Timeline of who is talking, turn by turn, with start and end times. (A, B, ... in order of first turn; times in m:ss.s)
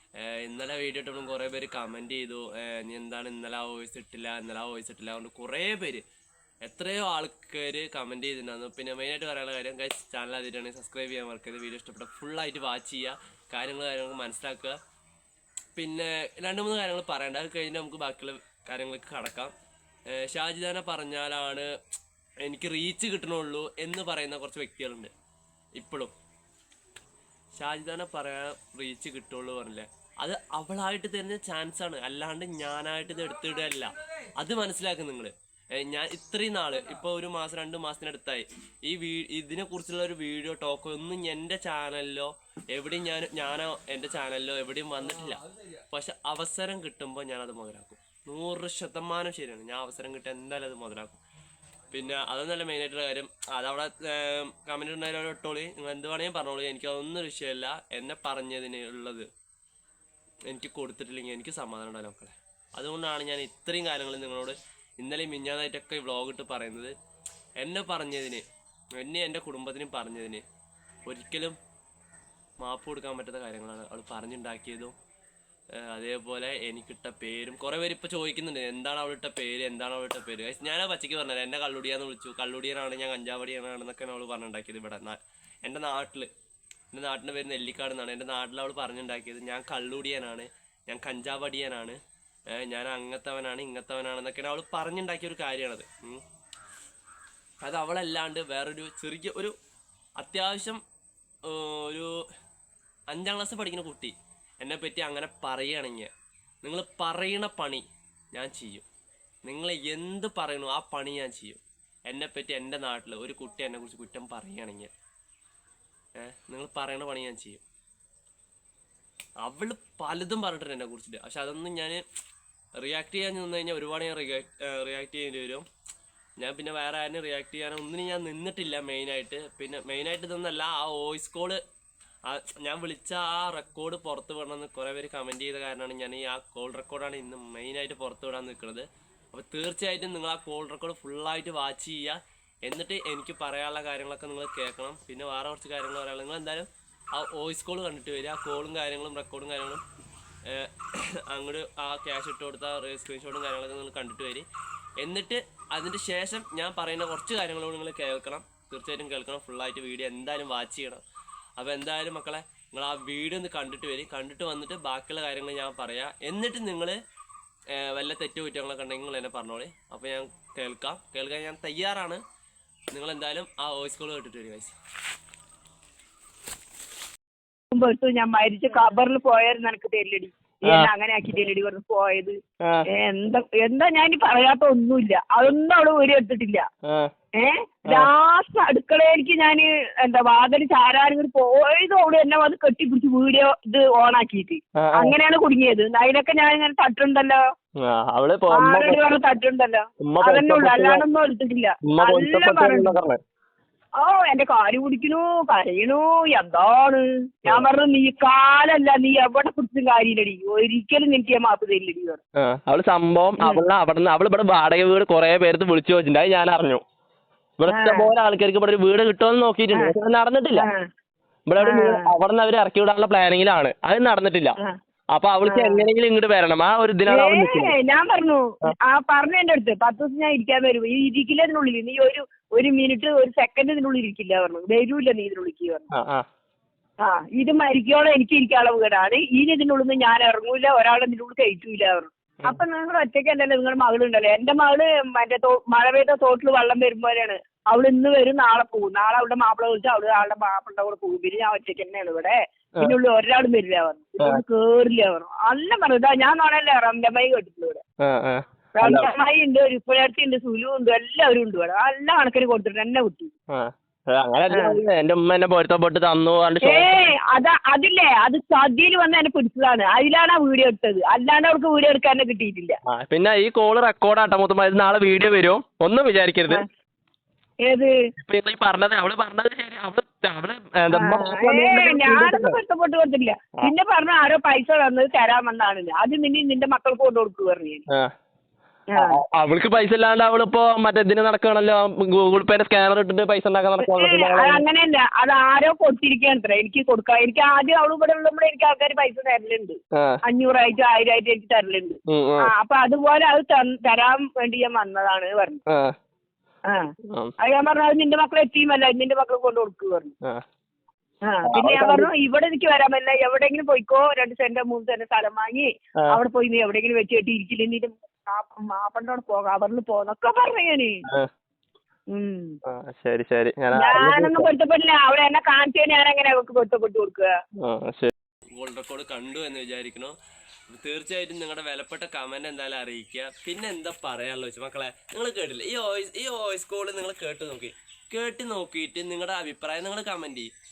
0:00.2-0:06.0 A
0:06.6-0:14.8 A
0:15.8-0:19.5 A
0:20.1-0:21.7 A
0:22.4-0:25.1 A
0:25.8-0:26.1 A
0:27.5-0:51.2 A
0:51.9-0:59.3 A
1:00.5-1:06.9 A
1:07.6-1:08.4 A
1:09.0-1:10.4 A
1:11.1-1:11.6 A
1:12.6-1:14.9 A
1:15.8-1:26.3 A
1:26.9-1:32.0 A
1:32.5-1:36.2 A
1:37.6-1:39.5 A
1:40.2-1:40.8 A
1:41.5-1:42.1 A
1:43.1-1:46.1 A
1:46.6-1:48.8 A
1:49.4-1:54.9 A
1:56.2-1:57.6 A
1:59.4-2:02.0 A
2:02.8-2:05.6 A
2:06.4-2:11.6 A
2:12.3-2:29.8 A
2:30.5-2:34.4 A
2:35.0-2:41.0 A
2:41.6-2:47.0 A
2:47.7-2:52.2 A
2:52.9-2:54.7 A
2:57.7-3:02.4 B
3:00.6-3:00.9 C
3:02.9-3:06.6 B
3:06.8-3:07.1 C
3:07.4-3:17.4 B
3:14.8-3:15.1 C
3:17.8-3:19.0 C
3:18.5-3:22.9 B
3:20.0-3:21.0 C
3:21.8-3:23.2 C
3:24.0-3:32.2 B
3:32.4-3:36.8 C
3:37.6-3:40.6 C
3:37.7-3:38.1 B
3:40.6-3:40.8 B
3:41.5-3:44.5 C
3:41.6-3:42.1 B
3:45.1-3:47.7 C
3:45.4-3:45.8 B
3:47.1-3:55.8 B
3:55.9-3:56.2 C
3:57.0-4:17.8 B
4:18.0-4:19.1 C
4:18.7-4:23.3 B
4:23.5-4:26.9 C
4:24.5-4:24.8 B
4:26.6-4:32.8 B
4:32.8-4:36.6 C
4:37.6-4:37.9 B
4:38.2-4:42.6 C
4:40.9-4:47.8 B
4:48.9-4:49.2 B
4:49.0-4:54.6 C
4:53.8-5:05.6 B
4:59.9-5:00.2 C
5:02.1-5:02.5 C
5:05.7-5:05.9 C
5:07.4-5:10.1 B
5:11.2-5:21.0 B
5:11.5-5:12.1 C
5:22.1-5:22.5 B
5:22.6-5:24.5 C
5:23.7-5:27.3 B
5:27.6-5:28.1 C
5:28.5-5:30.1 A
5:30.7-5:40.5 A